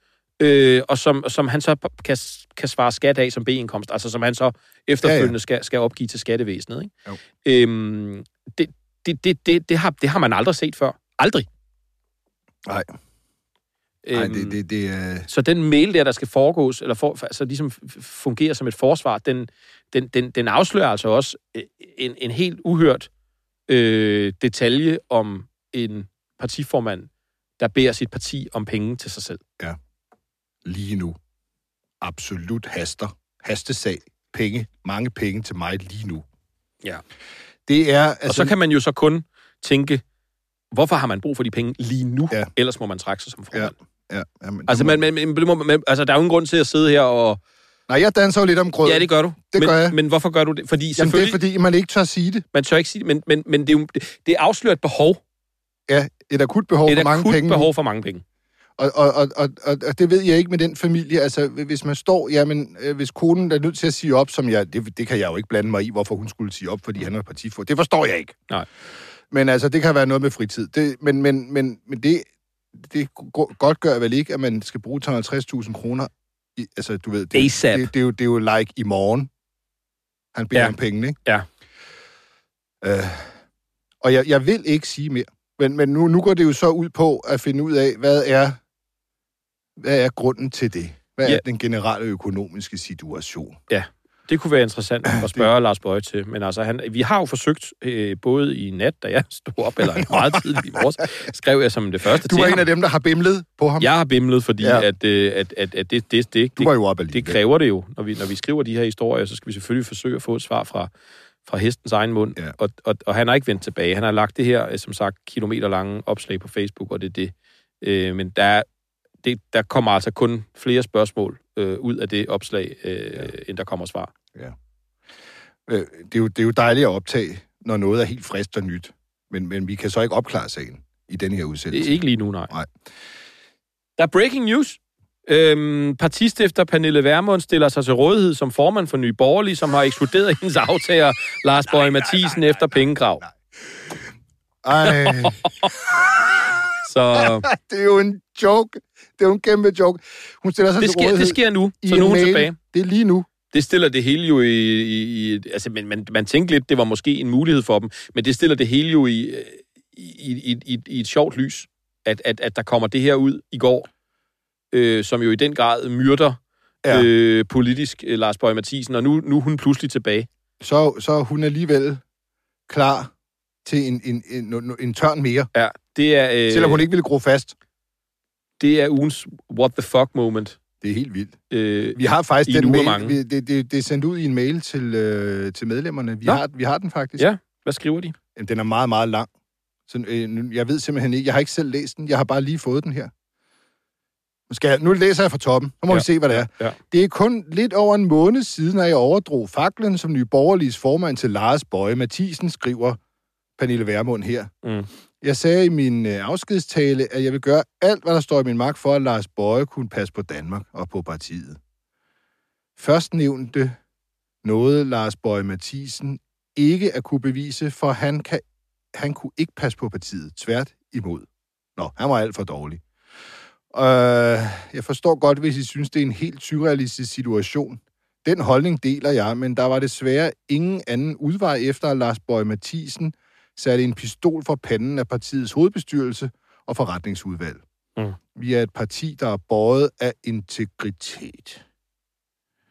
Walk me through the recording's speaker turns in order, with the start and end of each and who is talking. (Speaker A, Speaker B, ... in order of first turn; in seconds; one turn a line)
Speaker A: 0.4-11.5
Speaker B: 5.0-5.3
Speaker B: 12.7-12.9
Speaker A: 14.0-14.6
Speaker B: 14.1-15.3
Speaker A: 15.3-23.1
Speaker A: 23.7-29.4
Speaker B: 30.6-31.2
Speaker B: 32.0-36.2
Speaker B: 37.7-38.5
Speaker A: 38.3-40.0
Speaker A: 40.7-43.8
Speaker B: 43.5-45.0
Speaker A: 44.7-47.4
Speaker B: 47.9-50.0
Speaker A: 48.8-51.4
Speaker B: 51.0-52.4
Speaker A: 52.5-55.2
Speaker B: 55.9-57.7
Speaker A: 56.9-58.2
Speaker B: 58.8-68.3
Speaker B: 69.3-79.3
Speaker A: 77.3-77.9
Speaker B: 80.3-81.2
Speaker A: 80.5-81.5
Speaker B: 82.8-83.4
Speaker B: 84.0-88.6
Speaker B: 89.8-93.6
Speaker A: 93.7-102.6
Speaker B: 100.3-100.7
Speaker B: 102.2-103.9
Speaker A: 103.8-110.9
Speaker B: 104.6-104.9
Speaker B: 106.6-107.4
Speaker A: 111.4-118.7
Speaker A: 119.2-124.1
Speaker B: 125.7-132.0
Speaker A: 131.7-132.5
Speaker A: 134.0-143.2
Speaker B: 141.7-143.3
Speaker B: 144.6-145.4
Speaker A: 144.8-145.7
Speaker A: 146.8-147.5
Speaker B: 147.2-153.3
Speaker A: 150.8-152.6
Speaker A: 153.5-163.9
Speaker A: 164.7-170.3
Speaker B: 170.6-172.0
Speaker B: 172.7-173.1
Speaker B: 173.6-175.5
Speaker A: 175.5-176.8
Speaker B: 176.5-177.5
Speaker A: 178.6-180.6
Speaker B: 180.8-181.4
Speaker A: 181.5-183.2
Speaker B: 181.9-187.2
Speaker A: 187.2-188.2
Speaker B: 188.3-189.3
Speaker B: 189.9-193.1
Speaker B: 194.5-203.0
Speaker A: 195.9-196.8
Speaker B: 203.6-204.5
Speaker A: 204.6-204.9
Speaker B: 205.2-211.6
Speaker B: 212.8-213.8
Speaker B: 214.4-218.4
Speaker B: 218.9-221.2
Speaker B: 221.8-222.8
Speaker B: 223.7-237.6
Speaker B: 238.3-241.6